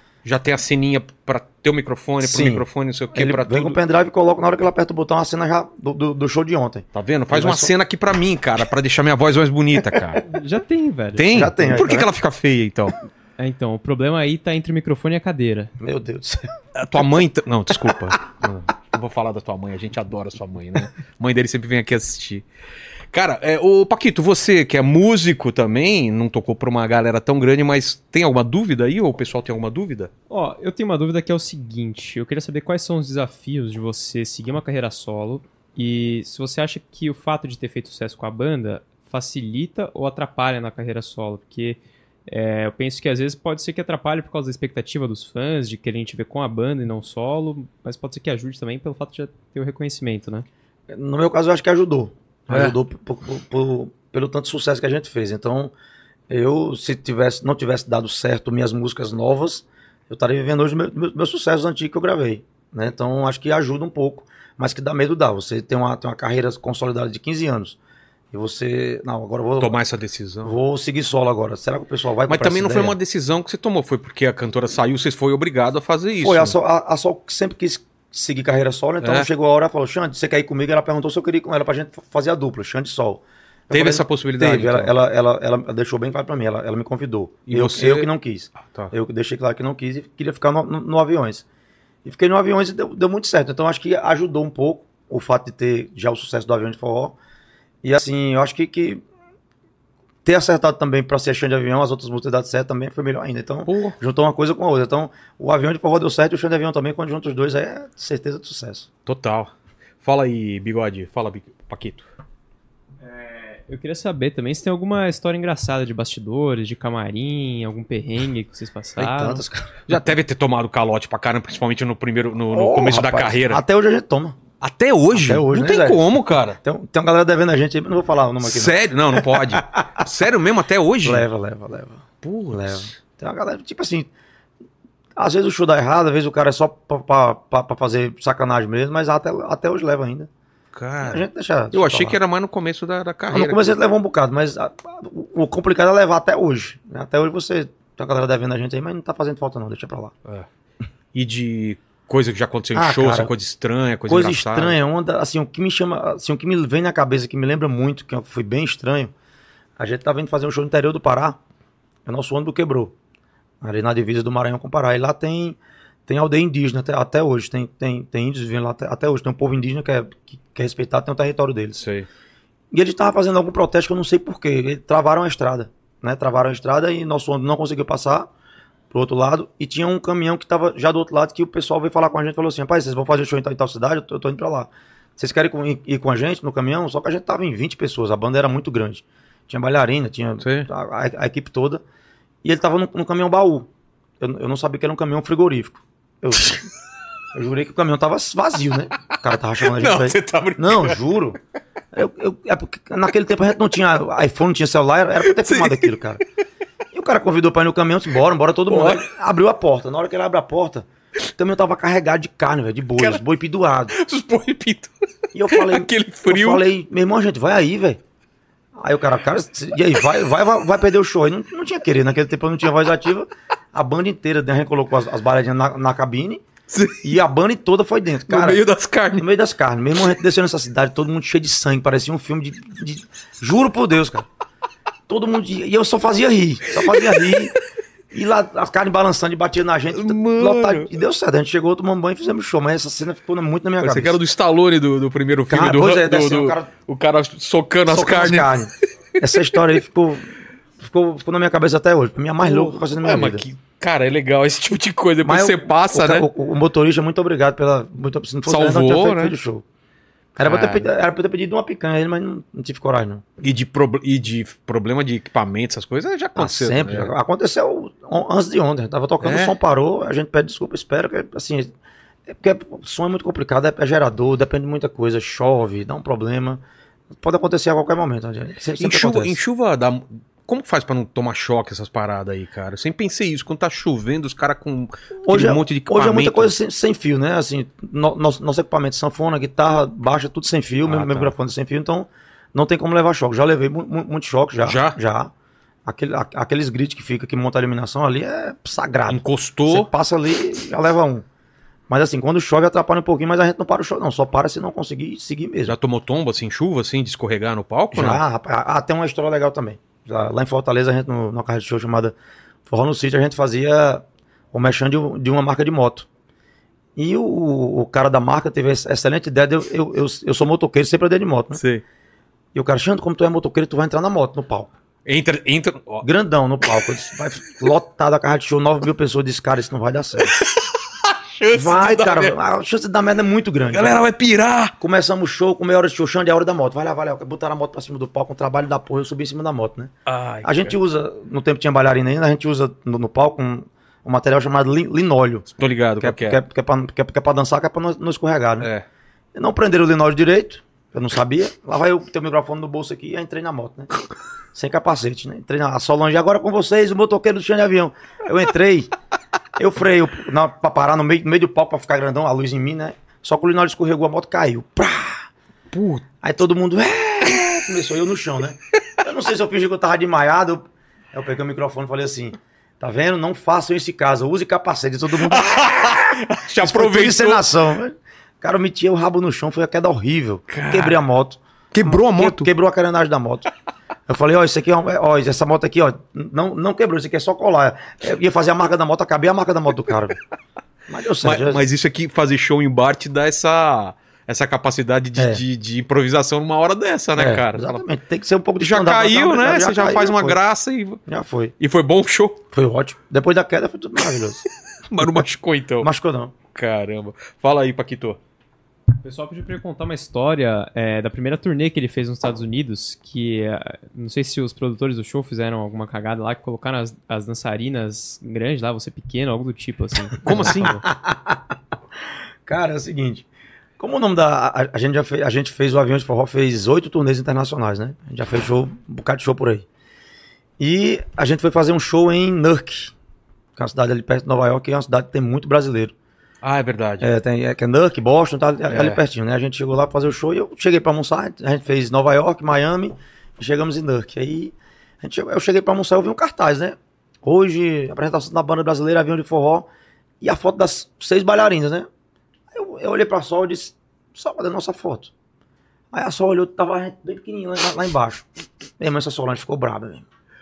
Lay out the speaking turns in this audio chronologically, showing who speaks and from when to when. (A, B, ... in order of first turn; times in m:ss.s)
0:00.2-0:03.8 A
0:02.2-0:07.7 B
0:06.9-0:10.2 A
0:09.9-0:10.2 B
0:10.2-0:11.9 C
0:11.2-0:12.9 A
0:11.3-0:12.1 B
0:13.4-0:15.7 C
0:15.8-0:16.5 B
0:16.8-0:22.4 A
0:23.1-0:30.1 A
0:30.3-0:50.5 C
0:50.9-0:55.7 B
0:52.5-0:52.8 A
0:56.3-1:07.8 B
1:08.3-1:09.8 B
1:09.6-1:10.5 A
1:10.4-1:13.0 B
1:12.3-1:16.5 A
1:16.2-1:31.4 B
1:19.0-1:19.3 A
1:23.7-1:24.9 A
1:27.4-1:28.9 A
1:32.0-1:37.2 B
1:37.8-1:39.0 B
1:40.2-1:48.9 B
1:43.6-1:44.0 A
1:49.0-1:52.1 A
1:53.0-1:59.4 C
1:59.0-1:59.8 B
1:59.9-2:03.6 A
2:02.5-2:04.4 B
2:04.6-2:06.6 A
2:05.1-2:10.0 B
2:08.4-2:11.2 A
2:11.0-2:14.1 B
2:12.2-2:12.9 A
2:15.2-2:20.3 B
2:20.7-2:23.8 A
2:21.0-2:22.2 B
2:23.3-2:30.1 B
2:31.1-2:34.8 A
2:32.7-2:33.3 B
2:34.1-2:39.1 B
2:39.8-2:41.4 B
2:42.0-2:42.9 B
2:43.6-2:51.8 B
2:51.7-2:52.1 A
2:52.7-2:58.3 B
2:58.9-3:11.8 B
3:10.4-3:10.7 A
3:12.4-3:13.7 B
3:14.2-3:16.6 B
3:17.3-3:21.4 B
3:19.6-3:21.0 A
3:21.9-3:26.2 B
3:25.2-3:25.9 A
3:26.9-3:34.0 B
3:28.7-3:29.1 A
3:33.0-3:33.2 A
3:33.9-3:34.9 A
3:35.3-3:38.0 B
3:35.5-3:36.6 A
3:38.8-3:46.4 B
3:46.7-3:47.2 A
3:47.0-3:48.6 B
3:48.3-3:49.3 A
3:49.2-3:54.3 B
3:55.1-3:57.6 B
3:56.7-3:57.6 A
3:58.1-4:04.2 B
3:59.9-4:00.9 A
4:03.8-4:08.6 A
4:05.5-4:06.7 B
4:07.9-4:13.4 B
4:12.4-4:16.3 A
4:15.2-4:19.6 B
4:18.4-4:19.4 A
4:20.4-4:23.2 B
4:20.4-4:20.9 A
4:23.4-4:27.1 A
4:26.4-4:31.7 B
4:29.2-4:29.5 A
4:32.2-4:36.6 B
4:37.2-4:39.4 B
4:38.8-4:46.5 A
4:45.2-4:55.3 B
4:50.8-4:51.3 A
4:54.6-4:55.0 A
4:55.8-5:01.2 B
4:59.1-4:59.9 A
5:01.9-5:05.8 B
5:05.7-5:08.2 A
5:07.9-5:12.1 B
5:12.7-5:16.1 B
5:17.0-5:21.6 B
5:21.5-5:21.8 A
5:22.5-5:24.7 B
5:25.0-5:26.0 A
5:26.0-5:30.4 B
5:30.2-5:32.4 A
5:31.5-5:34.0 B
5:33.7-5:34.7 A
5:34.8-5:45.5 B
5:40.0-5:40.7 A
5:45.5-5:46.4 A
5:46.0-5:48.7 B
5:48.6-5:48.8 A
5:49.3-5:53.9 B
5:54.5-5:58.9 B
5:59.6-6:05.3 B
6:05.7-6:06.1 A
6:06.2-6:23.5 B
6:15.2-6:17.5 A
6:20.5-6:21.0 A
6:21.7-6:22.5 A
6:24.1-6:30.2 B
6:30.9-6:31.6 B
6:31.2-6:37.8 A
6:35.2-6:35.4 B
6:37.2-6:40.4 B
6:38.6-6:41.0 A
6:41.1-6:41.5 B
6:41.6-6:42.4 A
6:42.5-6:44.4 B
6:44.9-6:45.9 A
6:45.8-6:46.3 B
6:46.5-6:48.2 A
6:49.0-7:00.8 C
7:00.2-7:00.8 A
7:00.3-7:01.5 B
7:02.4-7:03.2 B
7:03.8-7:09.7 B
7:10.6-7:12.9 B
7:13.6-7:15.9 B
7:16.4-7:17.1 A
7:17.0-7:29.7 B
7:18.7-7:19.0 A
7:30.2-7:31.9 B
7:32.5-7:35.1 B
7:35.9-7:38.3 B
7:38.8-7:40.0 B